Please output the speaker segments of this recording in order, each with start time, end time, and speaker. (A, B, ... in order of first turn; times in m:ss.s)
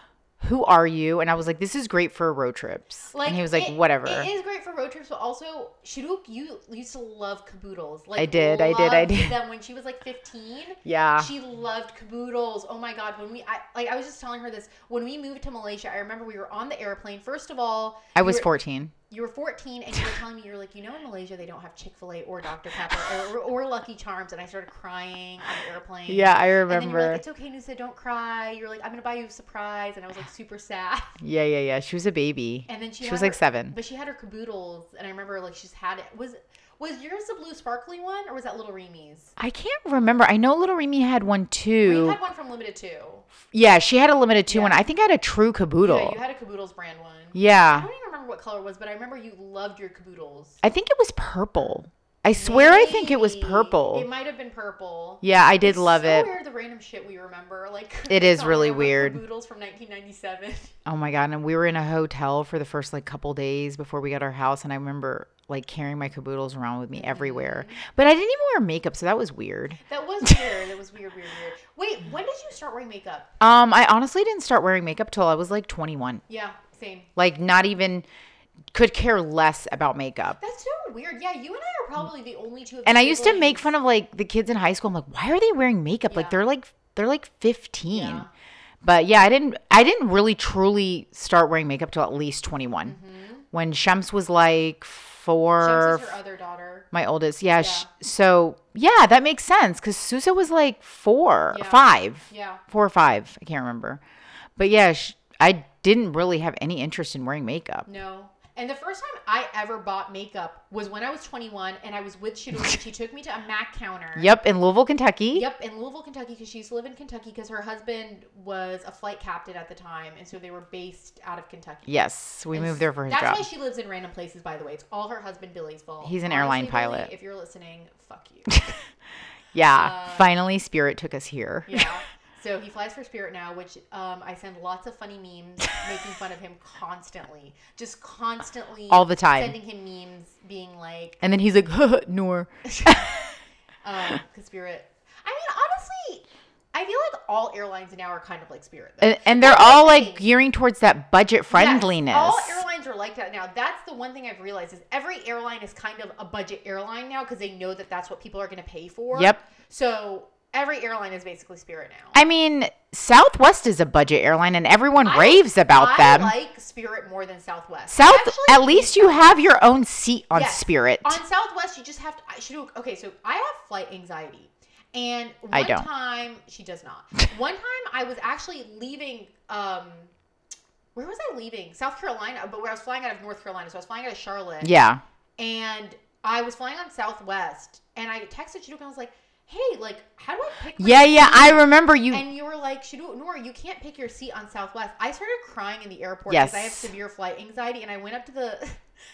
0:00.4-0:04.3 A
0:03.1-0:18.5 B
0:08.2-0:09.3 A
0:10.8-0:11.3 A
0:18.1-0:18.9 A
0:19.1-0:31.2 B
0:26.1-0:27.2 A
0:31.2-0:33.7 A
0:32.7-0:39.3 B
0:39.4-0:42.2 A
0:41.8-0:43.2 B
0:43.5-0:46.2 A
0:44.5-0:44.8 B
0:45.8-0:50.6 B
0:47.3-0:47.9 A
0:50.6-0:54.0 A
0:52.3-1:00.7 B
0:55.2-0:56.3 A
0:58.1-0:59.2 A
1:00.8-1:10.4 A
1:06.9-1:07.8 B
1:09.9-1:13.3 B
1:13.4-1:16.2 A
1:16.3-1:17.1 B
1:17.2-1:18.0 A
1:18.7-1:20.4 A
1:20.4-1:23.7 B
1:22.8-1:28.2 A
1:26.1-1:26.4 B
1:27.9-1:28.3 B
1:28.8-1:33.0 A
1:32.8-1:33.4 B
1:33.5-1:36.1 A
1:35.6-1:36.8 B
1:36.9-1:44.0 A
1:37.6-1:37.9 B
1:41.5-1:42.6 B
1:44.6-1:47.9 A
1:47.8-1:54.3 B
1:54.2-1:55.4 A
1:55.3-2:01.9 B
2:01.8-2:03.4 A
2:02.5-2:08.6 B
2:06.0-2:07.1 A
2:08.5-2:08.8 A
2:09.5-2:11.9 A
2:09.7-2:10.3 B
2:11.7-2:21.2 B
2:18.9-2:19.5 A
2:21.2-2:23.3 A
2:22.6-2:23.0 B
2:23.8-2:30.2 B
2:29.0-2:32.6 A
2:31.5-2:42.2 B
2:39.1-2:39.4 A
2:42.1-2:46.3 A
2:45.0-2:49.4 B
2:47.9-2:51.2 A
2:50.3-3:00.1 B
2:55.5-2:55.9 A
3:00.9-3:04.7 B
3:04.6-3:05.0 A
3:05.4-3:18.8 B
3:10.8-3:12.2 A
3:16.3-3:16.9 A